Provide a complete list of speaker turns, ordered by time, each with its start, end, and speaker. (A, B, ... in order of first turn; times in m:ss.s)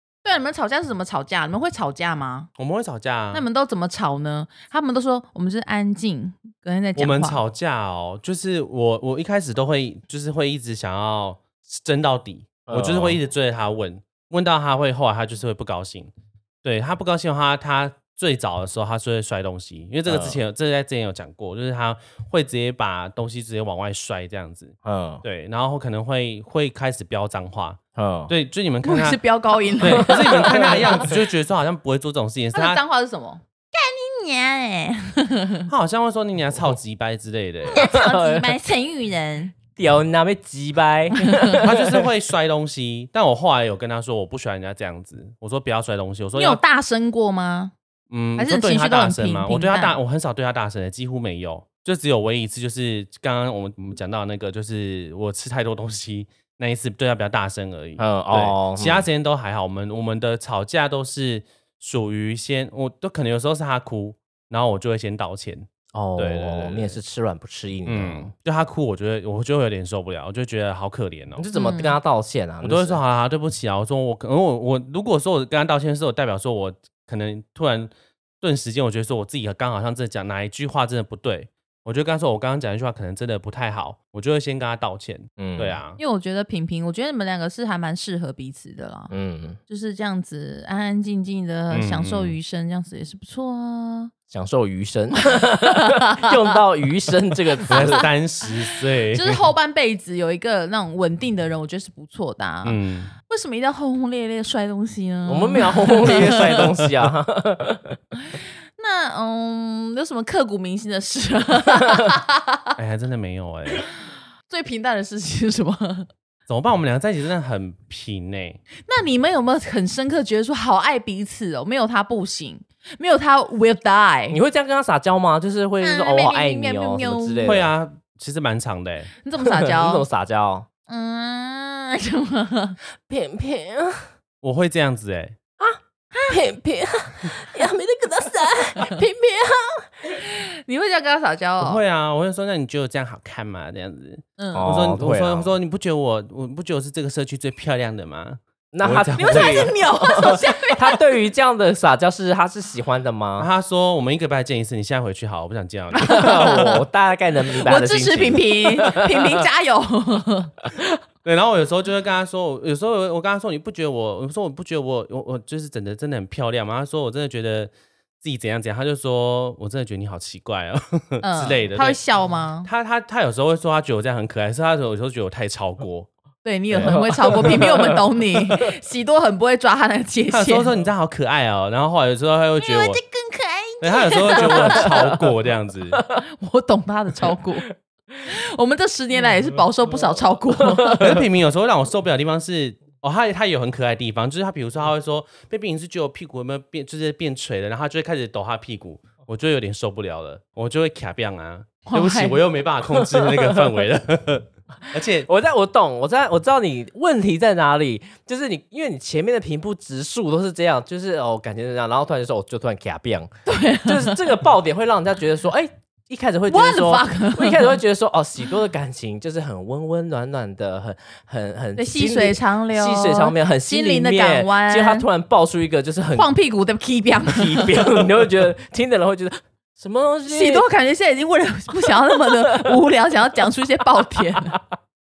0:00.2-0:02.5 A
0:02.6-0:03.5 B
0:03.3-0:07.4 A
0:07.0-0:16.1 B
0:12.7-0:13.2 C
0:16.6-0:29.2 B
0:20.1-0:20.4 C
0:24.8-0:25.2 C
0:28.0-0:28.3 C
0:28.8-0:31.1 A
0:29.8-0:32.8 B
0:29.8-0:30.8 C
0:32.5-0:35.7 A
0:35.7-0:37.8 B
0:37.7-0:39.6 A
0:37.8-0:38.5 C
0:39.8-0:42.1 C
0:41.2-0:41.6 A
0:41.6-0:46.6 B
0:46.4-0:47.7 A
0:48.1-1:07.0 B
0:48.4-0:50.0 A
0:58.0-0:59.1 C
1:05.9-1:08.3 C
1:07.9-1:11.4 B
1:11.4-1:13.0 C
1:11.5-1:12.0 A
1:12.6-1:26.0 B
1:25.4-1:25.8 C
1:26.0-1:29.1 A
1:29.1-1:29.6 C
1:29.7-1:34.1 A
1:31.7-1:32.4 B
1:34.3-1:38.1 C
1:35.3-1:36.3 A
1:37.7-1:38.0 A
1:37.7-1:39.5 B
1:39.1-1:42.8 A
1:42.6-1:43.1 B
1:43.3-1:46.6 A
1:45.3-1:48.0 C
1:46.0-1:47.0 B
1:48.2-1:52.7 A
1:52.8-1:53.9 B
1:54.5-1:56.1 A
1:56.5-1:58.6 B
1:58.8-2:04.4 A
2:04.3-2:07.7 C
2:05.8-2:07.5 A
2:07.4-2:09.1 B
2:09.2-2:10.0 A
2:09.4-2:10.7 C
2:10.9-2:12.8 A
2:13.1-2:14.1 C
2:14.4-2:15.4 B
2:15.6-2:20.2 C
2:16.1-2:16.4 A
2:20.1-2:21.8 A
2:21.6-2:29.7 B
2:24.4-2:24.7 A
2:24.5-2:25.5 C
2:28.7-2:33.5 C
2:29.2-2:31.0 A
2:33.4-2:36.8 B
2:36.0-2:36.7 A
2:36.1-2:39.4 C
2:37.6-2:40.5 A
2:41.2-2:52.0 B
2:51.2-2:52.7 A
2:52.6-2:56.1 B
2:56.4-3:00.7 A
2:56.7-2:58.4 C
3:00.3-3:03.0 B
3:02.6-3:05.0 A
3:03.8-3:06.0 B
3:04.4-3:05.1 C
3:06.0-3:06.2 C
3:06.2-3:07.7 A
3:08.2-3:11.2 A
3:10.6-3:11.2 C
3:11.0-3:25.3 B
3:21.9-3:22.4 A
3:22.9-3:23.8 C
3:25.2-3:33.3 C
3:33.5-3:34.3 A
3:33.8-3:46.3 C
3:36.5-3:37.8 A
3:41.8-3:45.1 A
3:46.2-3:47.9 A
3:47.3-3:50.7 C
3:50.3-3:54.6 A
3:51.8-3:52.7 C
3:54.3-3:54.6 C